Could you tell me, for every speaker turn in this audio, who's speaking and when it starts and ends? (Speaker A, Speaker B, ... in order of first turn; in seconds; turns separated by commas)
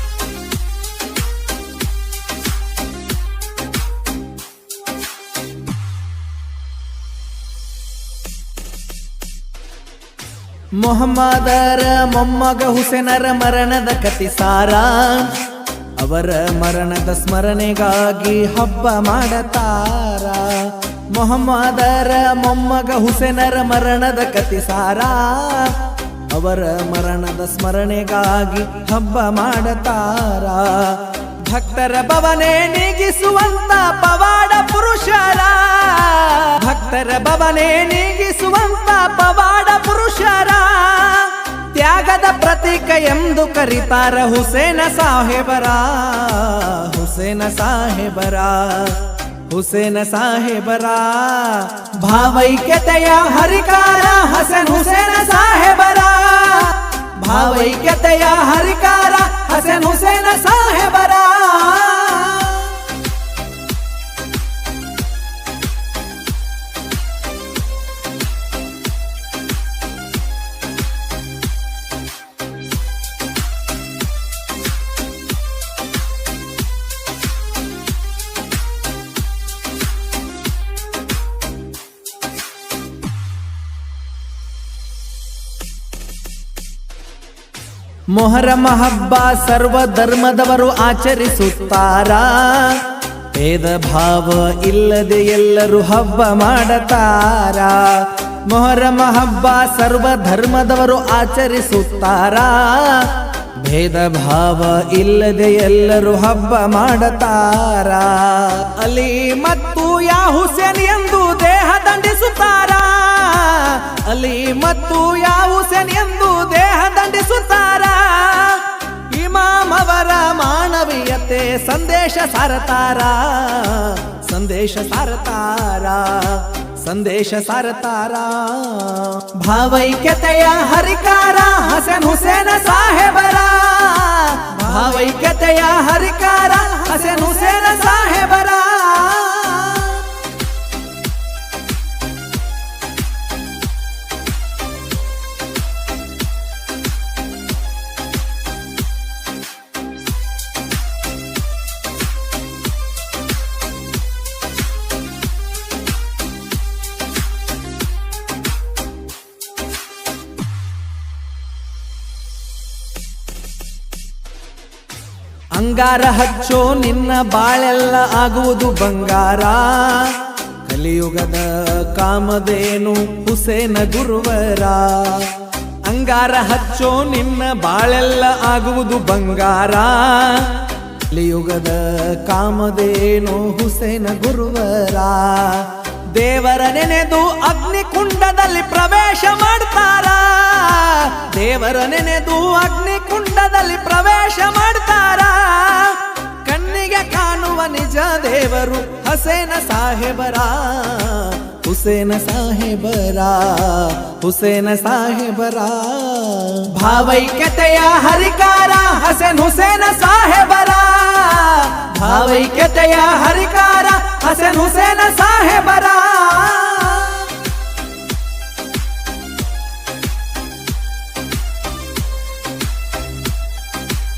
Speaker A: 10.8-62.9, Speaker A: 88.1-140.1, Speaker A: 165.5-217.4